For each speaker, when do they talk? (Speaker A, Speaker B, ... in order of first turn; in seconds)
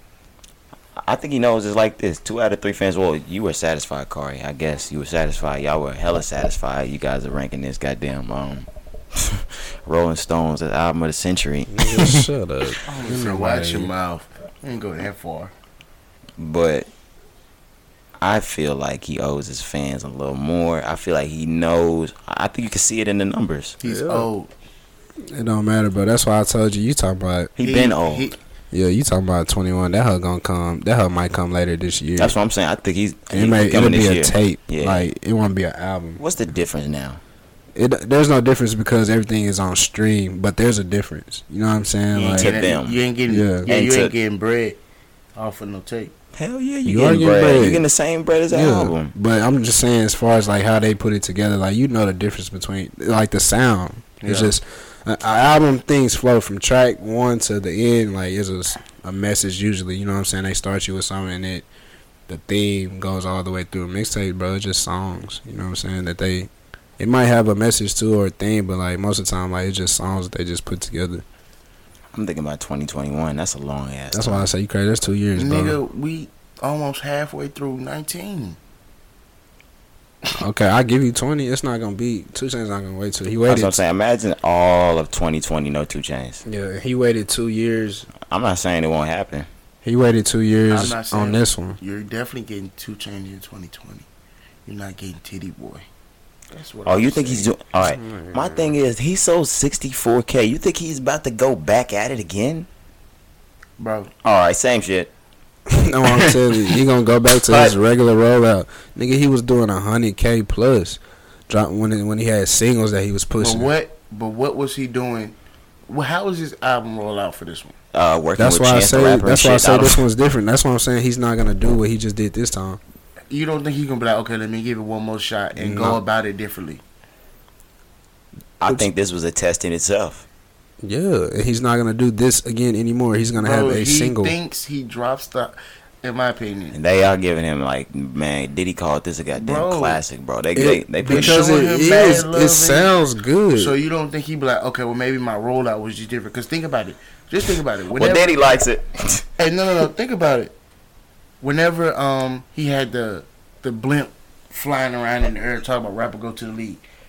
Speaker A: 1.0-12.2, 16.4-16.9, 18.2-23.8, 27.6-28.3, 32.2-35.1, 36.2-37.2, 42.3-43.0, 43.6-44.1, 46.3-49.1, 72.1-74.5, 83.5-86.4, 88.2-89.5, 96.8-102.7, 104.2-105.1, 106.0-106.8, 107.5-107.7, 117.9-120.0, 128.6-130.2, 136.7-141.4, 147.9-149.2
Speaker B: 11.7-13.9, 23.8-24.3, 25.2-27.5, 28.7-32.4, 33.3-36.2, 37.7-42.6, 43.3-43.7, 46.8-47.8, 48.5-61.6, 62.3-71.2, 74.1-75.8, 80.3-83.8, 86.4-88.1, 89.8-91.8, 97.8-98.7, 105.7-113.7, 118.4-122.8, 125.5-126.0, 130.8-134.3, 140.5-143.8
Speaker C: 12.8-15.5, 23.8-24.5, 27.6-28.4, 42.1-44.8, 45.4-46.1, 54.2-54.5, 75.3-78.6, 90.7-94.0, 94.7-95.8, 96.5-97.5, 103.8-104.1, 113.4-115.3, 115.9-117.7, 123.3-126.8, 133.3-136.8, 139.3-140.0, 141.0-142.9, 143.5-148.6, 149.4-150.5, 151.4-156.8